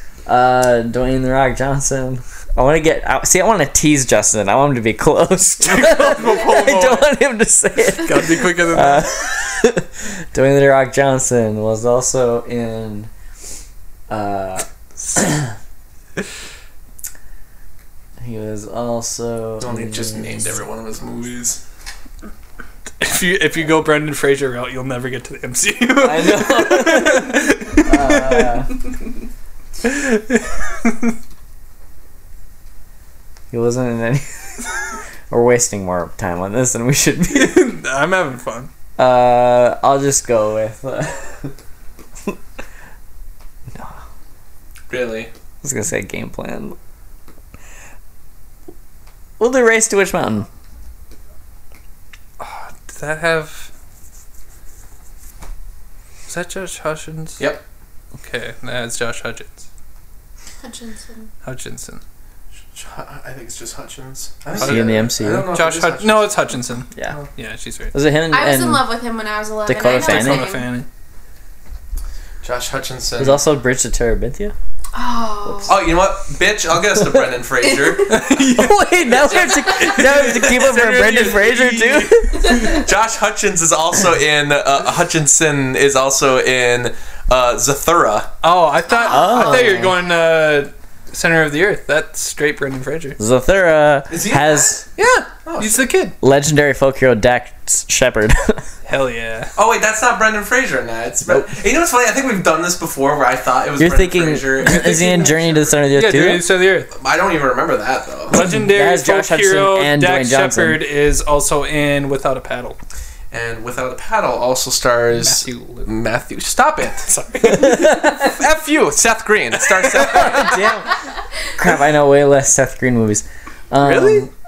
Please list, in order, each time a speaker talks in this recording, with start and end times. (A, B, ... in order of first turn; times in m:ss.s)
0:00.2-0:13.1 A
0:05.6-0:07.1 B
0:07.9-0:09.1 B
0:14.1-0:15.5 A
0:18.2-0:20.5 A
0:19.6-0:21.6 C
0:23.0-0:28.6 B
0:26.0-0:28.7 A
0:29.8-0:31.1 B
0:33.5-0:34.6 A
0:35.3-0:37.6 A
0:37.3-0:38.7 B
0:39.0-0:41.5 A
0:43.7-0:44.0 A
0:44.9-0:45.3 C
0:45.6-0:46.8 A
0:49.4-0:50.5 A
0:52.4-0:53.7 B
0:56.3-0:57.5 B
0:58.2-0:59.6 B
1:00.6-1:01.3 D
1:01.4-1:02.0 B
1:02.7-1:07.3 C
1:04.5-1:07.9 B
1:04.6-1:05.5 A
1:07.9-1:08.9 A
1:08.3-1:10.8 D
1:09.6-1:10.5 A
1:09.8-1:10.9 B
1:12.4-1:13.4 C
1:13.2-1:14.5 A
1:14.9-1:15.8 D
1:15.5-1:15.7 A
1:15.6-1:18.2 C
1:17.0-1:17.3 A
1:17.6-1:18.3 D
1:18.1-1:22.8 B
1:18.2-1:22.8 A
1:19.1-1:20.0 D
1:22.5-1:28.3 C
1:28.4-1:33.2 B
1:28.9-1:29.6 D
1:29.0-1:30.0 A
1:33.2-1:34.8 A
1:34.1-1:34.9 C
1:35.0-1:36.2 B
1:35.4-1:35.9 C
1:36.2-1:38.6 A
1:38.8-1:39.5 B
1:39.6-1:45.8 C
1:43.8-1:46.4 A
1:44.6-1:45.4 B
1:45.9-1:46.9 B
1:46.9-1:48.4 C
1:48.3-1:52.8 B
1:48.3-1:50.8 A
1:53.3-1:57.1 C
1:55.1-1:55.9 B
1:57.0-1:58.0 B
1:57.5-1:58.3 A
1:57.6-2:00.6 C
1:59.6-2:00.5 B
2:00.0-2:00.9 A
2:01.6-2:04.3 A
2:03.8-2:04.3 B